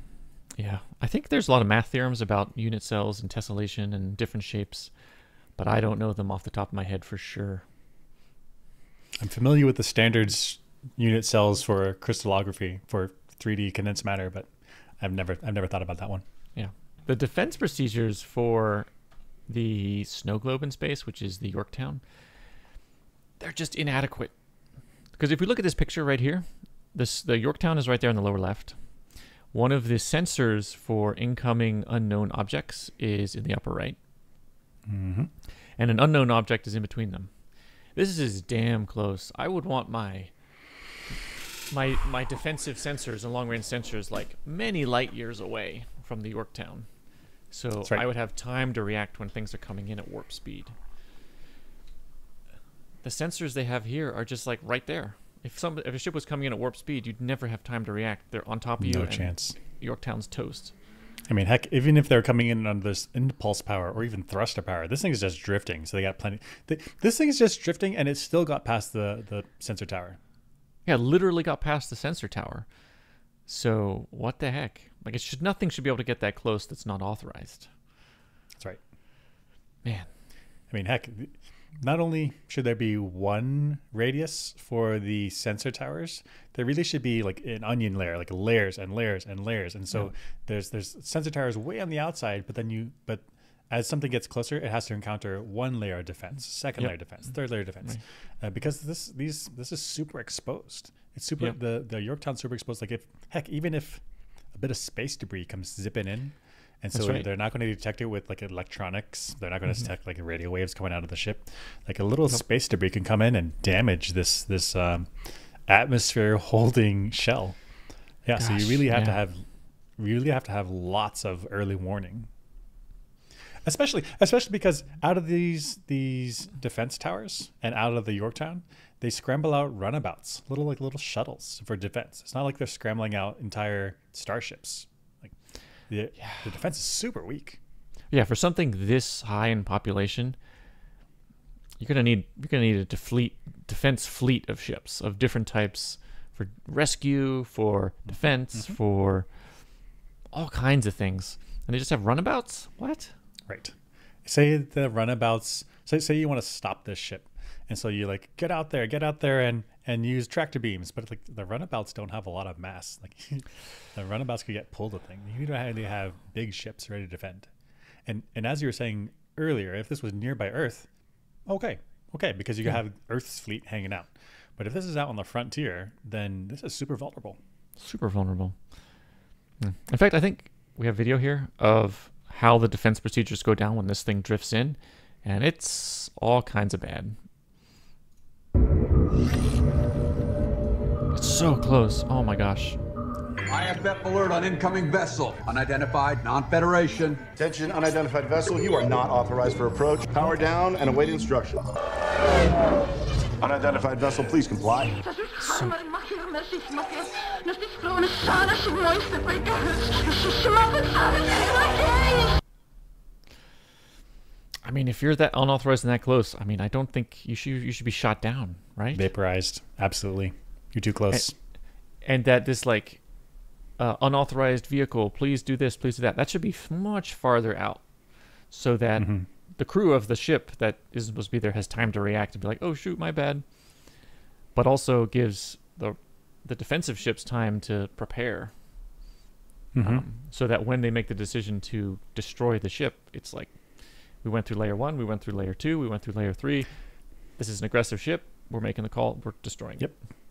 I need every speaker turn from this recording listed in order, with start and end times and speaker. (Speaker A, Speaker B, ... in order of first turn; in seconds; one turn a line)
Speaker A: 0.6-4.9
Speaker A: 5.6-7.6
Speaker B: 9.2-16.2
Speaker A: 16.6-18.9
Speaker A: 19.5-22.0
Speaker A: 23.4-24.3
Speaker A: 25.2-28.8
Speaker A: 29.5-34.0
Speaker B: 34.9-35.3
Speaker A: 35.8-37.3
Speaker A: 38.0-40.3
Speaker A: 41.7-46.9
Speaker A: 47.5-50.8
Speaker A: 53.0-60.7
Speaker B: 58.8-59.6
Speaker B: 61.3-70.2
Speaker A: 70.9-72.7
Speaker A: 73.5-77.7
Speaker B: 80.7-104.0
Speaker B: 104.5-115.1
Speaker A: 106.9-107.3
Speaker B: 115.7-117.6
Speaker B: 118.2-119.5
Speaker A: 118.4-119.2
Speaker B: 120.0-122.3
Speaker B: 123.6-135.3
Speaker B: 135.9-137.6
Speaker A: 138.1-140.4
Speaker A: 141.8-149.3
Speaker A: 150.3-153.1
Speaker B: 153.5-167.5
Speaker B: 168.1-170.9
Speaker B: 171.5-177.4
Speaker A: 177.8-178.6
Speaker A: 179.6-187.2
Speaker A: 191.1-192.8
Speaker C: 193.5-197.3
Speaker D: 197.4-201.7
Speaker D: 203.4-205.0
Speaker A: 205.4-205.9
Speaker A: 214.6-219.1
Speaker B: 218.9-221.3
Speaker A: 222.0-223.0
Speaker A: 223.8-227.8
Speaker A: 228.5-233.4
Speaker B: 229.0-229.3
Speaker A: 234.6-238.5
Speaker B: 239.7-240.1
Speaker A: 239.8-243.6
Speaker A: 244.2-246.7
Speaker A: 247.4-249.9